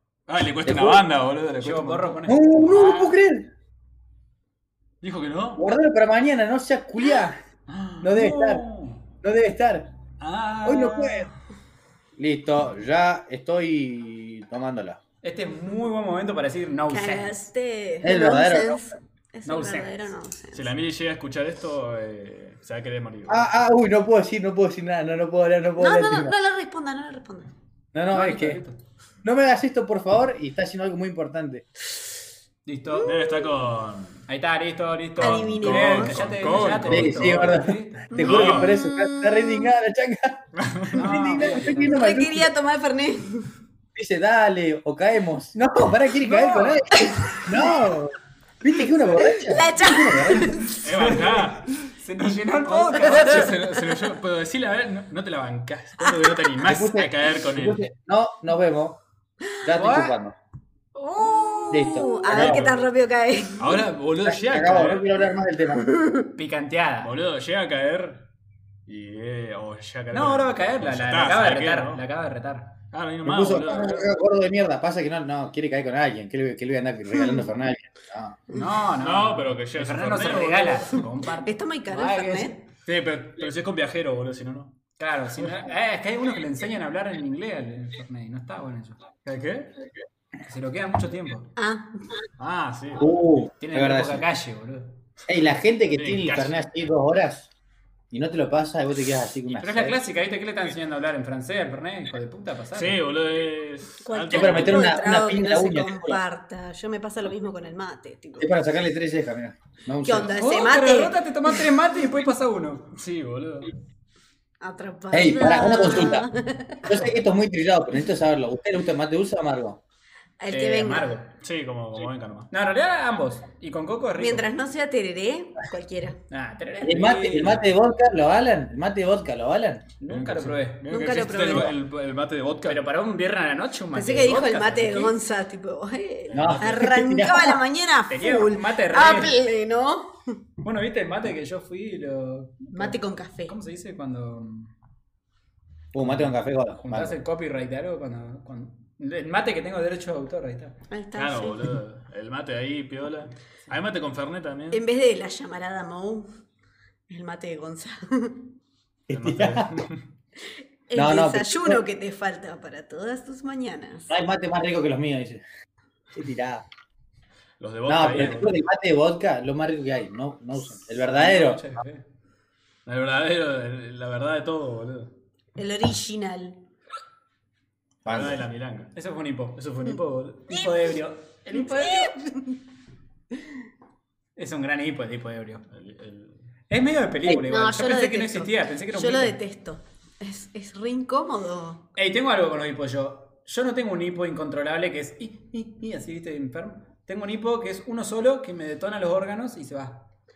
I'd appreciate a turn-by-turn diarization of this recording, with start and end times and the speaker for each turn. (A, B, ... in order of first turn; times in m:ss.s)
0:00.3-0:02.2 A
0:00.6-0:01.0 B
0:01.6-0:03.1 C
0:02.3-0:03.5 B
0:05.0-0:05.7 A
0:05.6-0:07.4 B
0:07.7-0:08.6 A
0:08.0-0:08.6 B
0:08.1-0:09.0 C
0:09.2-0:09.9 B
0:10.2-0:11.3 A
0:10.6-0:11.3 B
0:12.2-0:15.0 B
0:15.2-0:17.4 C
0:16.9-0:20.7 D
0:18.0-0:18.8 B
0:19.4-0:19.9 C
0:20.5-0:23.5 A
0:23.3-0:26.4 B
0:25.8-0:27.5 D
0:27.9-0:28.6 B
0:28.1-0:28.8 C
0:29.2-0:31.6 B
0:32.6-0:33.1 C
0:33.0-0:34.2 A
0:33.0-0:33.5 D
0:34.3-0:38.2 C
0:35.2-0:36.6 D
0:35.2-0:37.6 A
0:36.9-0:42.5 B
0:38.1-0:39.7 D
0:38.2-0:38.8 A
0:40.6-0:41.0 A
0:40.9-0:42.0 C
0:41.7-0:43.5 D
0:44.0-0:50.6 B
0:47.0-0:47.8 D
0:49.2-0:50.8 D
0:50.8-0:57.9 A
0:50.9-0:53.6 C
0:53.2-0:53.5 D
0:56.0-0:56.4 D
0:56.6-0:59.0 B
0:59.6-1:00.4 B
0:59.7-1:00.2 C
1:01.0-1:02.4 C
1:01.2-1:03.8 D
1:01.7-1:02.8 B
1:02.4-1:02.6 A
1:03.6-1:05.1 A
1:04.2-1:05.9 B
1:05.7-1:06.3 D
1:06.4-1:07.1 C
1:07.0-1:08.3 A
1:08.9-1:12.0 A
1:10.1-1:12.8 C
1:12.9-1:14.1 A
1:13.2-1:18.4 B
1:18.5-1:22.6 C
1:19.0-1:21.0 A
1:21.4-1:22.6 D
1:22.9-1:24.8 A
1:25.0-1:29.0 C
1:29.2-1:29.9 A
1:30.4-1:31.5 C
1:31.6-1:32.1 D
1:32.4-1:33.1 A
1:33.0-1:34.2 B
1:33.6-1:35.0 C
1:35.3-1:37.5 B
1:35.9-1:36.6 A
1:38.1-1:40.0 B
1:39.5-1:43.0 C
1:42.8-1:44.9 A
1:44.0-1:48.5 D
1:44.3-1:46.2 B
1:48.4-1:50.4 B
1:50.0-1:51.2 D
1:50.3-1:52.9 C
1:52.9-1:53.7 A
1:54.6-1:57.0 D
1:55.1-1:56.3 B
1:56.8-1:59.8 B
2:00.4-2:01.2 D
2:00.5-2:01.3 C
2:01.4-2:02.5 A
2:02.5-2:04.5 C
2:04.2-2:06.2 D
2:06.3-2:07.6 C
2:06.8-2:09.9 B
2:10.0-2:10.8 C
2:10.1-2:12.8 A
2:10.9-2:11.8 D
2:12.6-2:15.2 C
2:13.9-2:20.2 D
2:16.3-2:16.6 A
2:16.3-2:17.6 B
2:18.1-2:19.4 C
2:20.6-2:24.7 C
2:22.7-2:23.5 D
2:25.9-2:27.2 B
2:26.0-2:30.8 C
2:30.9-2:31.7 D
2:31.1-2:34.8 A
2:34.7-2:36.3 D
2:37.1-2:38.5 D
2:39.1-2:39.7 B
2:39.1-2:40.0 A
2:40.9-2:44.1 D
2:40.9-2:41.8 B
2:44.1-2:45.4 B
2:46.1-2:46.6 B
2:47.6-2:48.6 A
2:47.9-2:51.6 B
2:51.0-2:52.0 C
2:52.9-2:55.1 A
2:55.6-2:56.6 D
2:58.0-2:58.9 A
2:58.1-2:58.4 B
2:59.0-3:02.4 C
3:01.5-3:02.5 D
3:04.4-3:05.6 C
3:05.7-3:06.4 A
3:06.7-3:09.4 C
3:07.4-3:11.9 D
3:12.0-3:20.1 C